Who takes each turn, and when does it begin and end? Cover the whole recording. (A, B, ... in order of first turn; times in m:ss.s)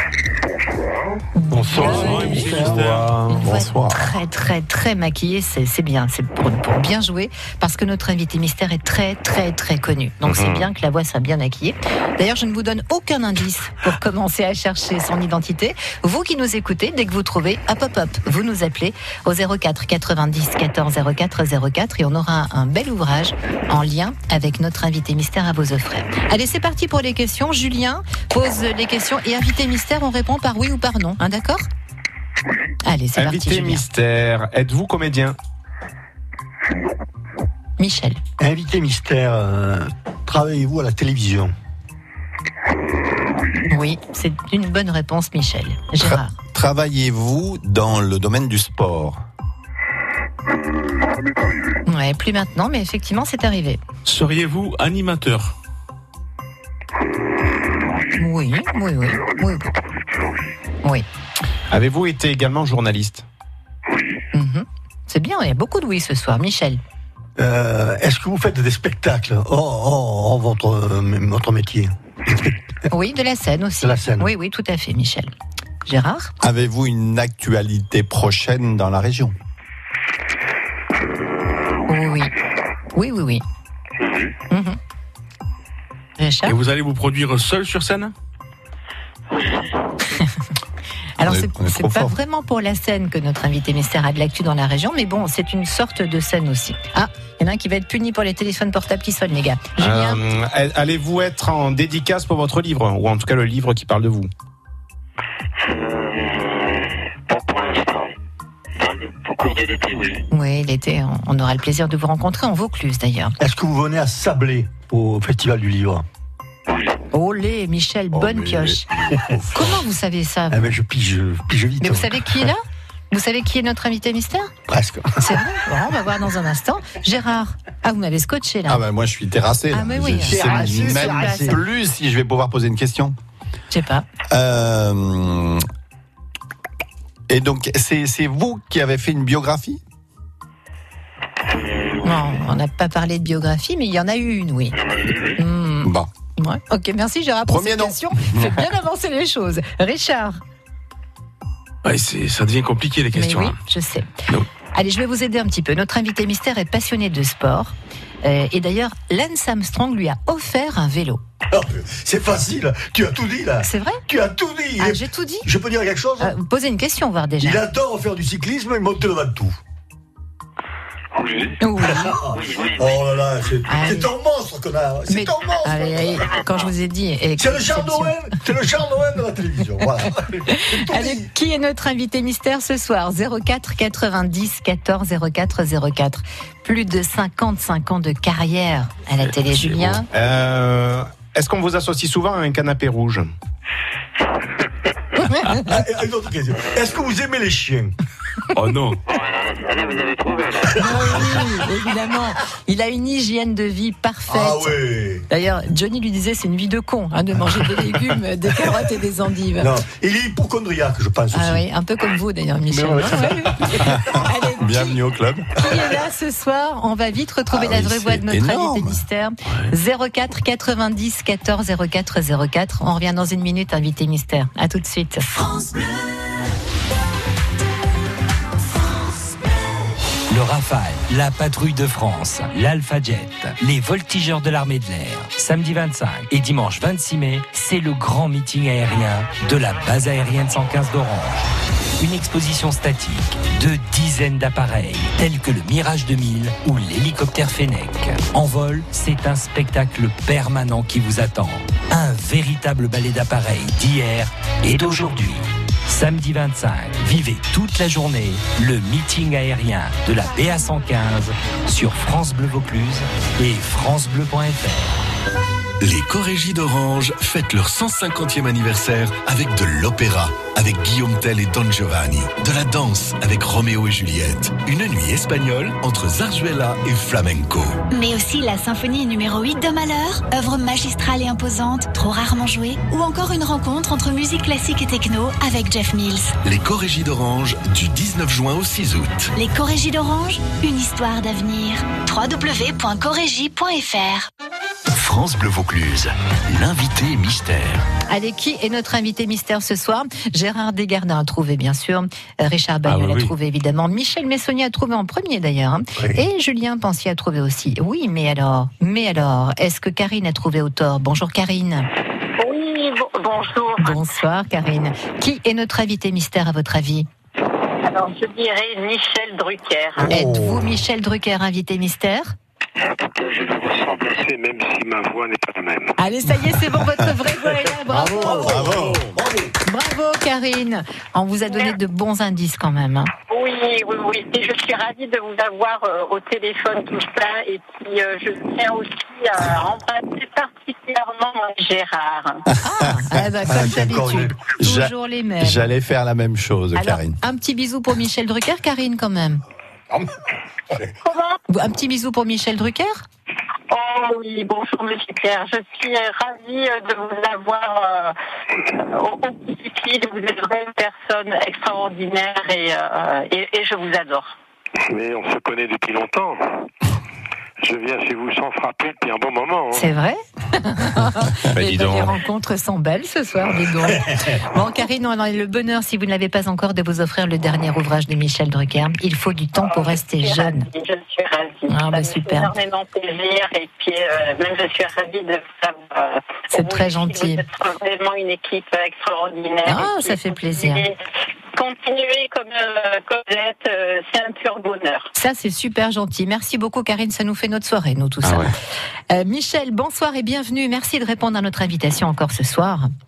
0:01.4-0:31.7 A
0:01.6-0:03.4 B
0:01.8-0:03.1 C
0:03.4-0:03.9 D
0:03.5-0:03.9 E
0:10.2-0:10.7 D
0:32.8-0:33.8 A
0:33.1-0:35.4 D
0:37.8-0:38.2 A
0:38.4-0:41.5 C
0:43.7-0:46.3 A
0:46.0-0:49.2 E
0:51.8-0:53.8 A
0:54.0-0:55.5 B
0:58.2-0:59.7 A
1:01.7-1:03.2 D
1:04.3-1:06.8 A
1:07.4-1:12.6 C
1:12.9-1:15.3 A
1:13.8-1:14.3 C
1:15.8-1:16.3 A
1:16.4-1:19.3 E
1:21.9-1:22.3 A
1:22.9-1:23.4 A
1:24.5-1:24.8 A
1:26.2-1:26.6 A
1:26.4-1:28.1 B
1:31.2-1:40.2 A
1:31.2-1:32.2 E
1:39.8-1:44.3 D
1:47.3-1:47.8 F
1:50.3-1:53.3 A
1:53.4-1:56.0 C
1:57.1-1:58.8 A
1:58.1-1:59.7 E
1:59.1-1:59.4 C
1:59.5-2:00.7 A
2:00.5-2:02.2 C
2:01.8-2:04.5 A
2:04.7-2:05.3 C
2:05.2-2:08.8 A
2:08.7-2:13.2 E
2:09.7-2:11.6 A
2:10.2-2:11.6 C
2:13.7-2:14.0 A
2:14.3-2:15.6 E
2:17.3-2:19.8 E
2:22.0-2:24.8 A
2:25.3-2:30.4 A
2:25.8-2:26.1 E
2:27.5-2:28.7 E
2:31.8-2:33.6 B
2:33.1-2:34.1 A
2:34.7-2:41.2 A
2:41.5-2:46.3 C
2:43.6-2:44.0 A
2:44.8-2:45.5 A
2:46.2-2:47.6 A
2:47.4-2:49.6 C
2:51.6-2:52.2 A
2:51.8-2:56.4 C
2:53.7-2:54.1 A
2:55.1-2:58.1 A
2:57.4-3:01.3 C
3:00.5-3:10.1 A
3:09.5-3:10.0 B
3:10.1-3:13.3 D
3:15.2-3:15.7 A
3:15.5-3:17.9 C
3:18.5-3:19.0 B
3:20.8-3:29.7 A
3:20.9-3:21.3 C
3:24.3-3:25.2 C
3:29.6-3:31.6 C
3:31.3-3:35.0 A
3:32.7-3:35.7 E
3:35.6-3:45.3 A
3:37.5-3:39.0 E
3:50.3-4:25.0 G
4:25.8-4:37.8 H
4:37.9-4:46.3 I
4:46.4-4:49.3 H
4:49.3-4:54.3 I
4:54.9-4:57.9 H
4:58.1-5:11.9 A
5:02.8-5:03.3 B
5:06.0-5:06.2 C
5:12.4-5:14.0 J
5:13.8-5:17.1 A
5:17.8-5:20.1 J
5:20.0-5:20.8 C
5:20.0-5:22.3 A
5:23.1-5:26.0 F
5:26.0-5:28.7 A
5:27.9-5:29.5 C
5:28.3-5:29.1 E
5:29.6-5:33.1 A
5:33.3-5:42.4 J
5:42.6-5:45.7 A
5:43.4-5:44.4 C
5:44.6-5:47.2 E
5:46.7-5:49.4 A
5:51.0-5:51.4 J
5:51.5-5:53.0 A
5:53.7-6:04.4 J
6:04.8-6:06.4 F
6:07.6-6:09.9 F
6:09.7-6:20.7 A
6:11.4-6:12.2 D
6:19.6-6:31.0 J
6:21.7-6:22.5 A
6:26.5-6:27.4 A
6:29.6-6:30.8 A
6:31.5-6:35.1 J
6:35.1-6:38.5 A
6:38.2-6:38.5 D
6:39.1-6:42.9 A